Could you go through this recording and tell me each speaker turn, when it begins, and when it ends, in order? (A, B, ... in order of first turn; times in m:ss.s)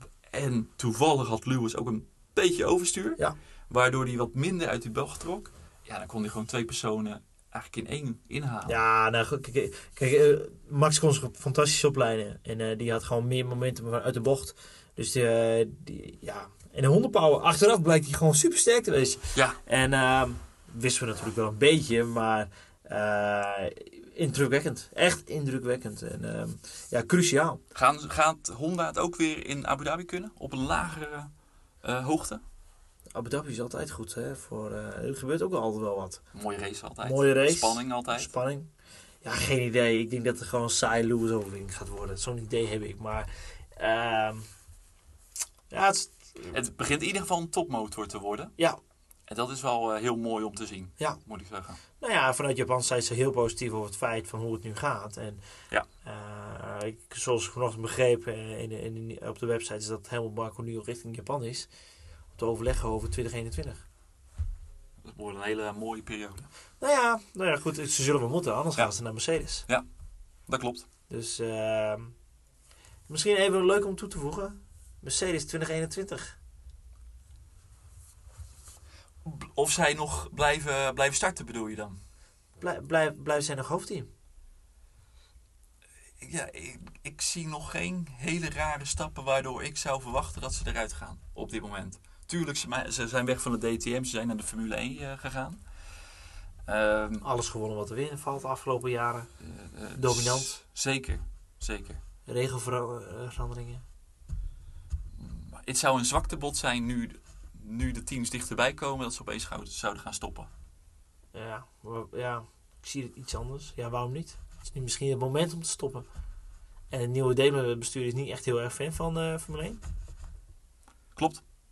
0:00.3-0:08.8 A
0:08.6-0:27.6 B
0:27.7-0:31.3 A
0:31.8-0:32.4 A
0:33.1-0:36.2 B
0:36.3-0:38.3 A
0:37.0-0:38.7 B
0:39.2-0:44.5 B
0:45.7-0:46.6 B
0:46.5-0:48.5 A
0:49.3-0:51.8 A
0:52.0-0:55.4 B
0:56.0-1:01.7 B
1:02.4-1:03.8 B
1:05.0-1:06.5 A
1:06.8-1:09.6 B
1:10.5-1:10.8 A
1:11.1-1:12.1 B
1:13.1-1:16.4 B
1:19.2-1:22.0 A
1:22.6-1:24.1 B
1:26.2-1:35.6 A
1:36.6-1:37.2 A
1:37.2-1:39.3 B
1:39.4-1:42.0 A
1:39.9-1:40.5 B
1:42.3-1:43.8 B
1:45.2-1:50.5 A
1:51.3-1:56.0 B
1:56.9-1:59.8 B
2:01.2-2:01.4 A